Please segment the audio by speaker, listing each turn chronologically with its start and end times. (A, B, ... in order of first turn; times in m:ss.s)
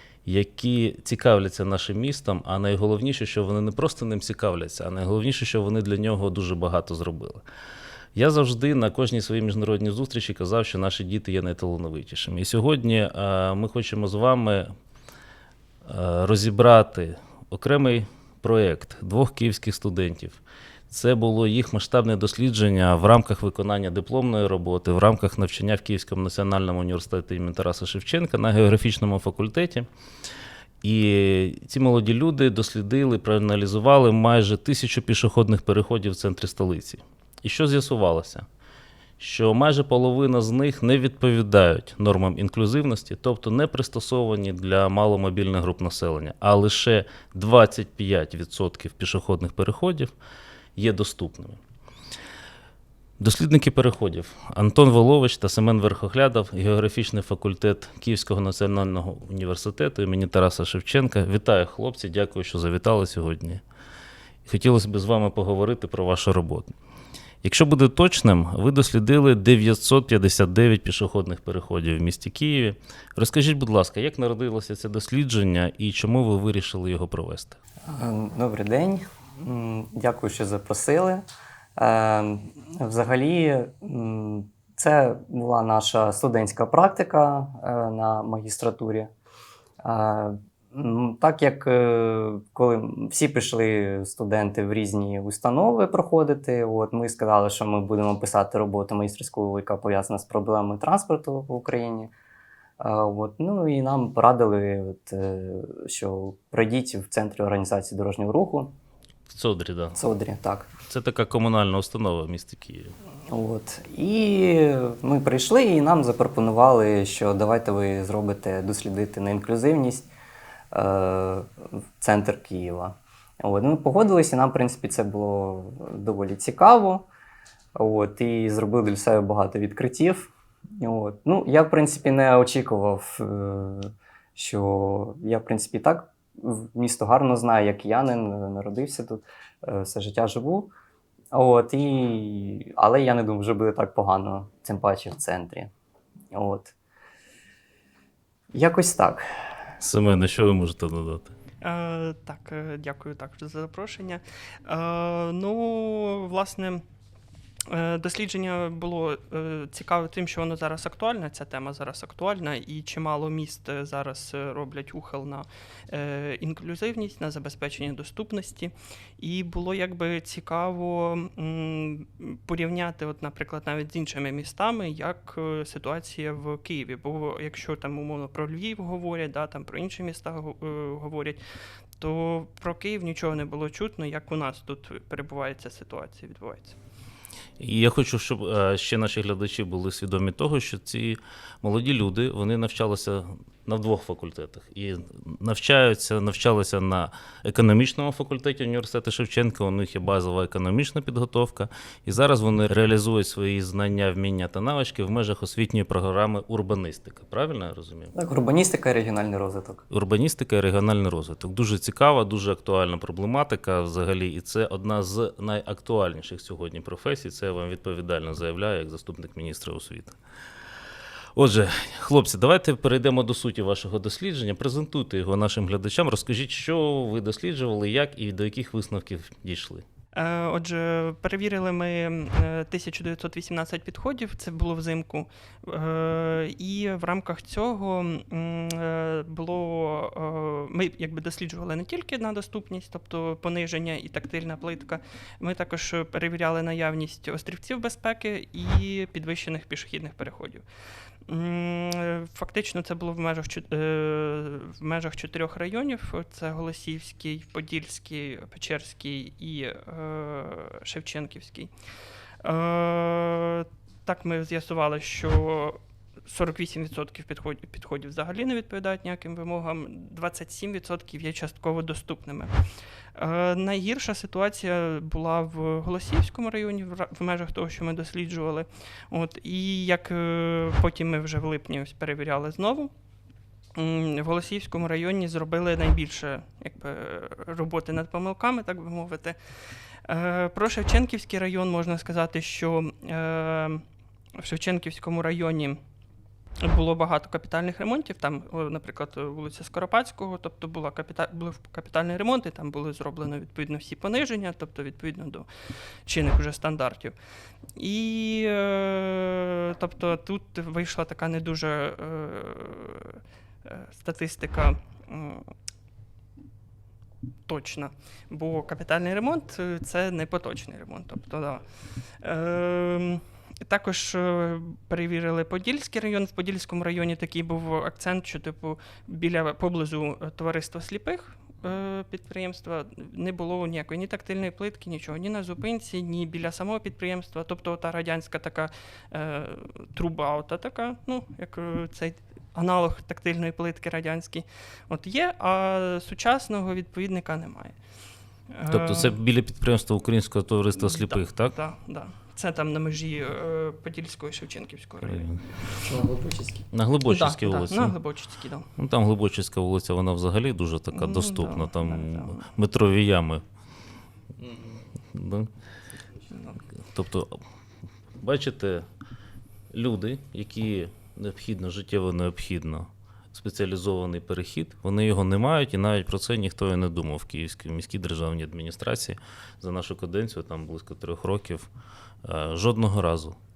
0:00.3-0:07.4 A
0:08.2-0:14.7 A
0:15.8-0:29.9 A
0:30.8-0:38.5 A
0:39.2-0:50.1 A
0:50.8-0:51.6 A
0:53.2-1:03.6 A
1:04.5-1:06.7 A
1:07.4-1:17.6 A
1:17.9-1:21.2 B
1:21.8-1:29.1 B
1:29.8-1:42.1 B
1:42.8-1:48.7 B
1:49.3-1:50.0 A
1:49.9-1:50.7 B
1:50.9-1:53.0 A
1:53.3-2:00.1 B
2:00.7-2:07.1 B
2:07.8-2:20.7 B
2:21.3-2:25.7 B
2:26.3-2:26.8 B
2:28.5-2:29.2 B
2:29.8-2:31.3 A
2:31.6-2:36.8 C
2:37.7-3:01.4 C
3:02.0-3:06.8 C
3:07.6-3:28.1 A
3:28.1-3:29.8 B
3:29.9-3:40.2 A
3:41.4-3:49.8 A
3:50.2-4:10.6 C
4:11.3-4:21.7 C
4:22.4-4:32.5 C
4:33.2-4:42.9 C
4:43.8-4:49.4 C
4:50.0-4:53.8 C
4:54.4-4:55.8 C
4:56.6-5:05.5 C
5:06.1-5:07.2 C
5:07.8-5:15.5 C
5:17.5-5:21.6 C
5:22.2-5:47.8 C
5:48.5-5:49.2 C
5:48.7-5:51.6 A
5:50.8-5:55.3 C
5:55.0-5:55.4 A
5:55.8-5:56.6 B
5:56.7-5:58.0 A
5:57.1-5:58.7 C
5:58.8-6:03.4 A
6:00.9-6:02.5 C
6:05.1-6:05.5 A
6:06.3-6:06.6 C
6:06.8-6:07.4 A
6:08.2-6:08.9 A
6:09.7-6:21.7 A
6:22.2-6:23.4 A